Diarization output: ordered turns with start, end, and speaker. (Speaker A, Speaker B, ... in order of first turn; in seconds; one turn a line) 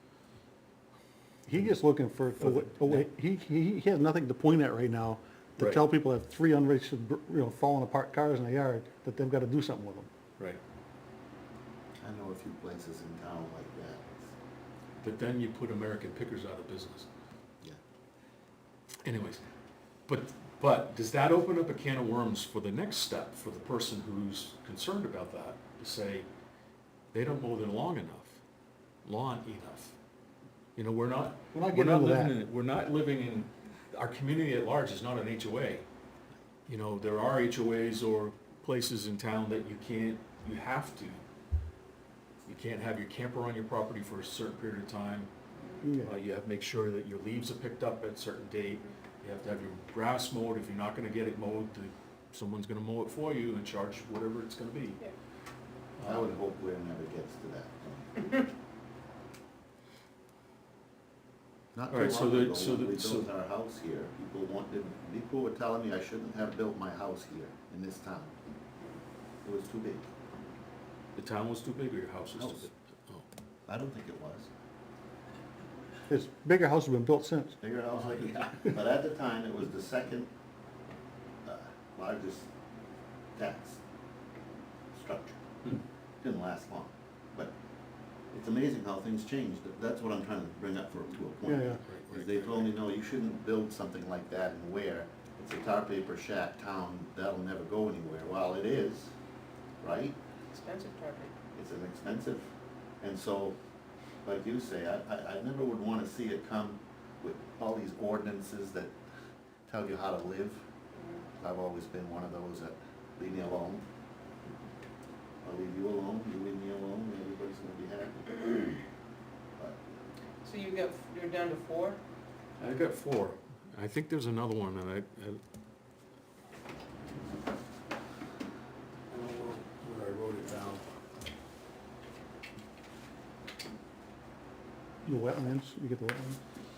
Speaker A: 1.5-10.1
Speaker B: 2.4-3.1
Speaker B: 5.6-5.8
Speaker C: 12.0-14.3
Speaker B: 15.0-17.1
Speaker B: 19.0-19.4
Speaker B: 20.1-26.3
Speaker B: 27.1-28.4
Speaker B: 29.1-30.0
Speaker B: 30.8-35.9
Speaker A: 31.5-32.4
Speaker B: 36.7-41.2
Speaker B: 42.5-45.3
Speaker A: 45.8-46.1
Speaker B: 46.0-55.0
Speaker B: 56.0-56.3
Speaker C: 56.0-58.3
Speaker C: 61.7-68.3
Speaker B: 61.9-63.3
Speaker C: 69.4-70.1
Speaker B: 71.2-73.3
Speaker C: 72.4-72.6
Speaker C: 73.7-74.5
Speaker A: 76.1-77.6
Speaker C: 77.6-80.3
Speaker C: 81.5-82.5
Speaker C: 83.3-83.8
Speaker C: 84.9-85.4
Speaker C: 86.2-87.5
Speaker C: 88.3-99.1
Speaker A: 91.5-91.8
Speaker B: 91.8-92.8
Speaker C: 99.8-100.2
Speaker D: 100.5-101.3
Speaker C: 101.5-102.5
Speaker C: 103.0-103.6
Speaker C: 104.2-108.9
Speaker C: 109.7-110.6
Speaker D: 111.0-111.2
Speaker C: 111.4-113.8
Speaker C: 115.4-118.8
Speaker D: 120.4-122.0
Speaker B: 122.6-125.4
Speaker B: 129.1-130.9
Speaker A: 135.0-136.4